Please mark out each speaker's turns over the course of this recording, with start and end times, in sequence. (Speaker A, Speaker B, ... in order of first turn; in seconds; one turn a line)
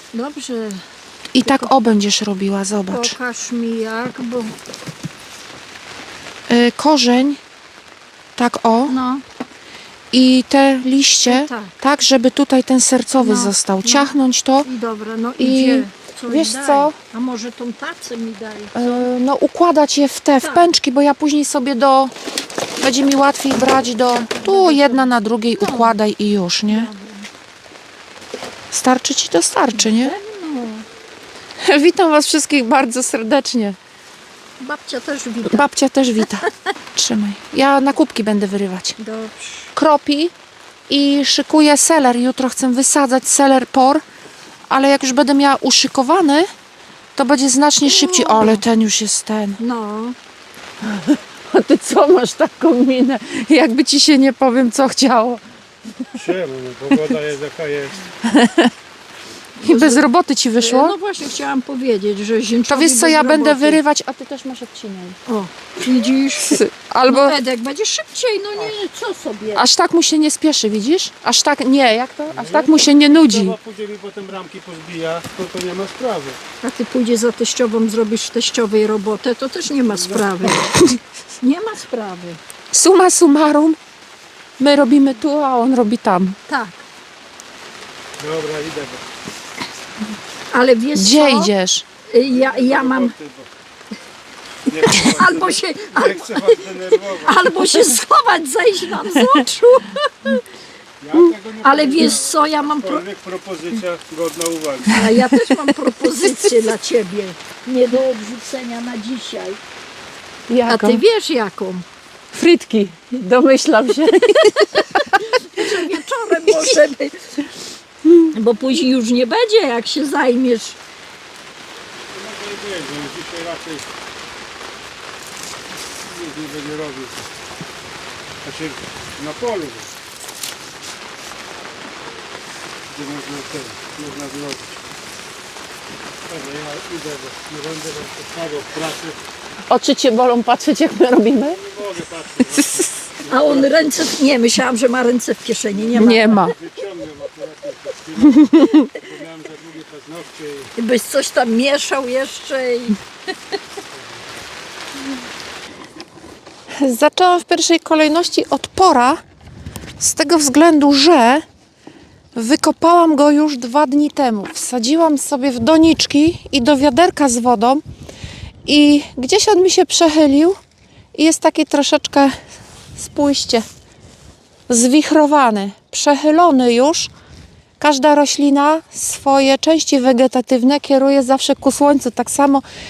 Speaker A: 0.1-0.8
Speaker B: 1.3-3.1
Speaker A: 1.4-1.7
Speaker A: 2.9-4.5
Speaker B: 6.5-7.4
Speaker B: 8.4-8.9
Speaker A: 8.9-9.2
Speaker B: 10.1-14.7
Speaker A: 11.2-11.7
Speaker A: 13.2-14.1
Speaker A: 14.6-19.0
Speaker B: 15.4-16.9
Speaker B: 18.7-22.1
Speaker B: 22.8-26.9
Speaker A: 24.1-25.9
Speaker A: 26.7-27.3
Speaker B: 28.7-30.1
Speaker A: 29.7-30.9
Speaker B: 31.6-33.8
Speaker A: 34.6-35.6
Speaker B: 35.5-39.0
Speaker A: 39.0-39.7
Speaker B: 39.7-40.3
Speaker B: 40.9-44.0
Speaker B: 44.7-46.5
Speaker B: 47.1-49.6
Speaker A: 47.8-48.6
Speaker A: 49.6-50.1
Speaker B: 50.8-55.4
Speaker C: 56.1-58.0
Speaker B: 58.2-58.7
Speaker A: 59.6-63.8
Speaker B: 59.6-61.0
Speaker B: 62.7-65.2
Speaker A: 65.3-69.6
Speaker B: 66.4-67.4
Speaker B: 69.5-73.5
Speaker C: 72.3-76.4
Speaker A: 76.6-80.8
Speaker C: 79.9-80.3
Speaker A: 81.4-82.4
Speaker B: 82.7-83.8
Speaker B: 84.6-86.4
Speaker A: 86.5-86.8
Speaker C: 88.2-89.0
Speaker A: 90.5-91.5
Speaker B: 90.9-91.8
Speaker A: 92.1-93.1
Speaker C: 92.3-93.5
Speaker C: 94.7-97.5
Speaker A: 94.8-100.4
Speaker C: 101.0-104.9
Speaker A: 101.6-103.0
Speaker A: 104.9-109.6
Speaker B: 106.0-106.5
Speaker B: 110.5-111.0
Speaker A: 110.7-111.8
Speaker B: 112.3-115.2
Speaker A: 114.2-117.4
Speaker A: 118.3-120.8
Speaker C: 122.1-123.9
Speaker C: 126.0-127.3
Speaker C: 128.4-129.9
Speaker C: 132.9-134.8
Speaker C: 136.3-139.2
Speaker B: 139.7-141.6
Speaker C: 141.4-143.9
Speaker B: 142.5-143.1
Speaker A: 143.3-146.5
Speaker C: 145.8-150.7
Speaker B: 145.9-146.5
Speaker B: 148.3-148.9
Speaker A: 150.8-153.0
Speaker B: 156.8-159.2
Speaker B: 160.0-161.4
Speaker B: 162.3-167.8
Speaker B: 168.6-170.6
Speaker B: 171.1-172.3
Speaker B: 172.9-173.6
Speaker B: 174.7-177.1
Speaker B: 177.8-182.6